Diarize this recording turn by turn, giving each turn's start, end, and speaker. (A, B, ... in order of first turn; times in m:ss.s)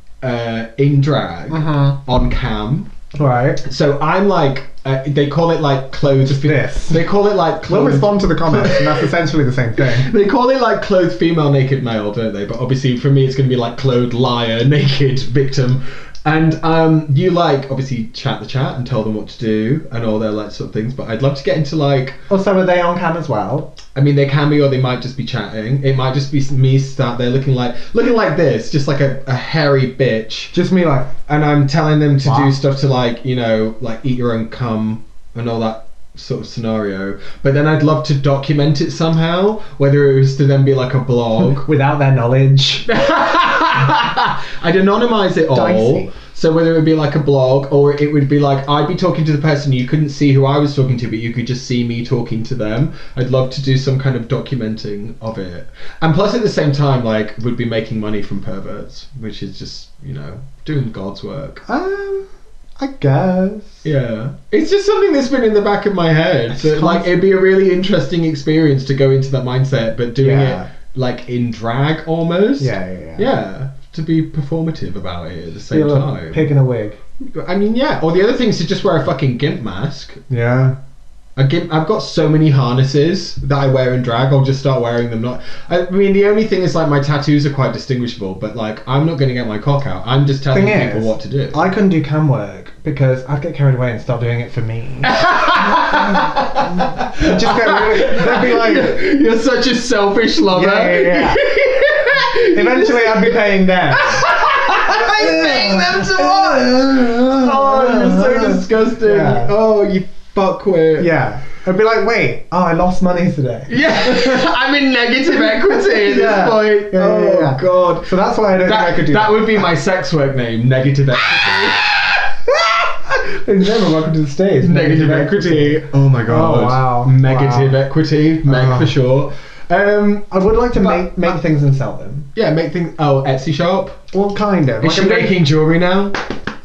0:00.2-0:02.9 A
0:01.5-0:02.0 B
0:03.1-0:03.6 B
0:03.6-0:09.1 A
0:06.2-0:07.1 B
0:07.6-0:10.1 B
0:09.8-0:22.2 A
0:22.3-0:23.7 B
0:23.9-0:30.5 A
0:30.5-0:31.2 B
0:31.3-0:41.7 A
0:32.2-0:32.5 B
0:41.4-0:42.9 B
0:42.9-1:01.6 A
0:45.5-0:46.1 B
1:01.6-1:02.3 B
1:02.8-1:03.8 B
1:03.8-1:16.5 A
1:06.5-1:07.2 B
1:10.2-1:10.7 B
1:12.6-1:13.3 B
1:15.7-1:17.0 B
1:17.2-1:20.2 A
1:20.3-1:20.8 B
1:21.4-1:31.6 A
1:30.5-1:38.9 B
1:35.0-1:51.1 A
1:40.5-1:41.4 B
1:42.5-1:49.5 B
1:51.0-1:54.5 B
1:53.7-2:02.3 A
1:55.3-1:59.7 B
2:02.5-2:07.8 B
2:04.6-2:11.3 A
2:08.4-2:08.9 B
2:10.3-2:12.3 B
2:12.3-2:14.0 A
2:14.1-2:15.4 B
2:14.8-2:16.2 A